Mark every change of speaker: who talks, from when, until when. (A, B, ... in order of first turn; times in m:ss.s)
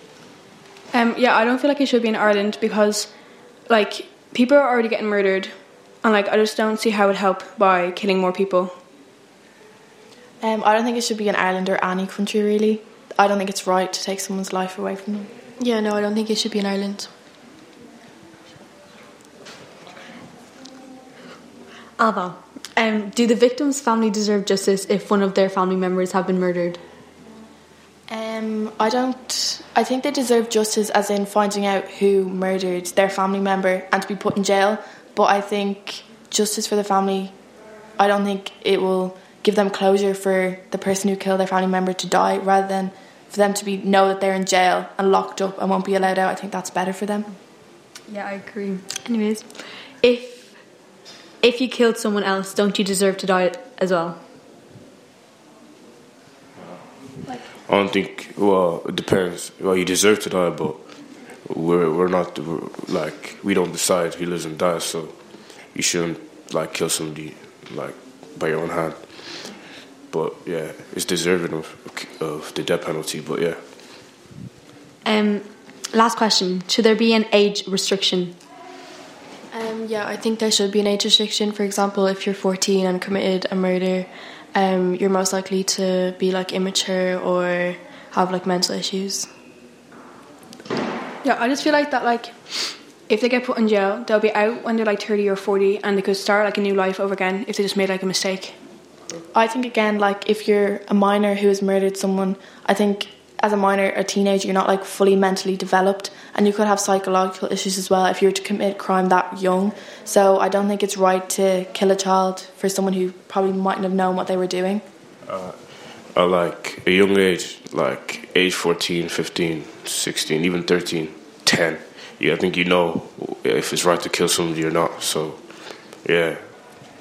0:00.9-0:08.7 A
0:10.4-0:15.3 B
0:15.6-0:17.1 C
0:22.0-0:26.8 D
0:28.1-0:37.3 B
0:38.0-0:47.3 B
0:48.1-0:50.8 D
0:51.4-0:54.2 D
0:57.5-1:13.6 E
1:15.0-1:18.4 D
1:19.5-1:29.3 C
1:31.2-1:38.6 A
1:39.3-1:54.8 B
1:55.2-2:06.6 E